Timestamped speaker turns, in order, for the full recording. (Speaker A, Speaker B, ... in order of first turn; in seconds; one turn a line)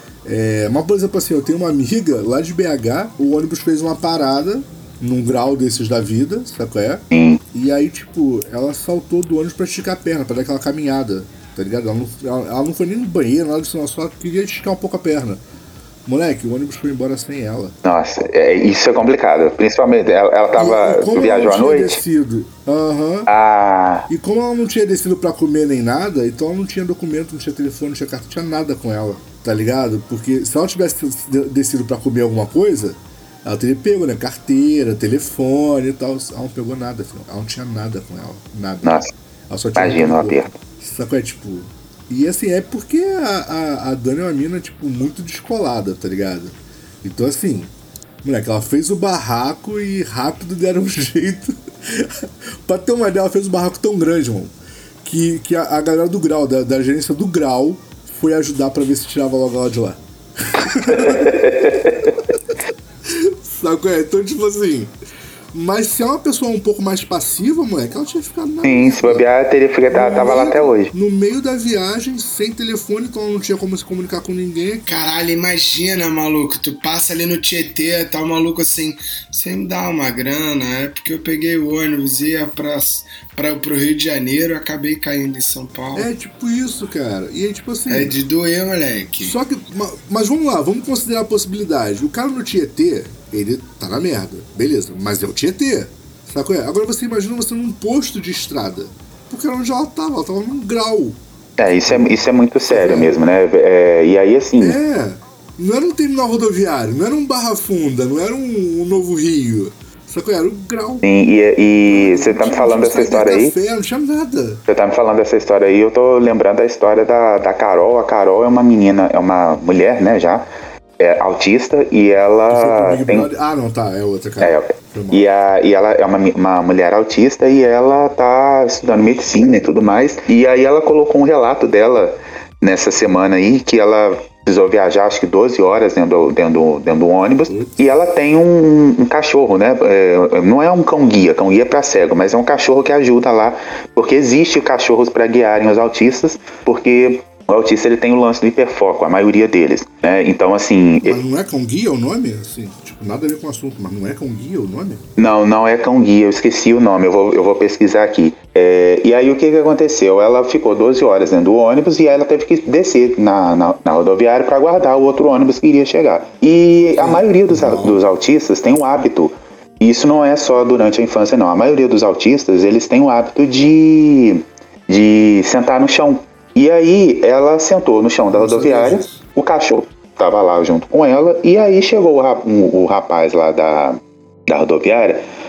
Speaker A: 0.2-15.4
Speaker B: 7.1-7.4
Speaker A: 16.1-17.8
Speaker B: 17.8-22.0
Speaker A: 20.6-23.3
Speaker B: 23.3-24.1
Speaker A: 24.1-47.7
Speaker B: 38.8-39.1
Speaker B: 39.8-40.5
Speaker A: 48.2-62.4
Speaker B: 60.9-62.1
Speaker A: 63.0-64.9
Speaker A: 65.5-69.3
Speaker B: 68.6-70.9
Speaker A: 69.9-74.9
Speaker C: 74.9-86.1
Speaker A: 86.0-88.2
Speaker C: 87.9-89.4
Speaker A: 89.2-101.2
Speaker B: 101.6-104.8
Speaker A: 101.8-103.2
Speaker A: 104.6-111.0
Speaker B: 111.0-113.5
Speaker A: 111.9-114.6
Speaker B: 114.7-120.5
Speaker B: 121.0-123.3
Speaker A: 122.5-125.3
Speaker B: 124.4-151.2
Speaker A: 137.5-137.8
Speaker A: 151.0-155.1
Speaker B: 155.2-185.2
Speaker A: 167.0-168.0
Speaker A: 178.3-179.2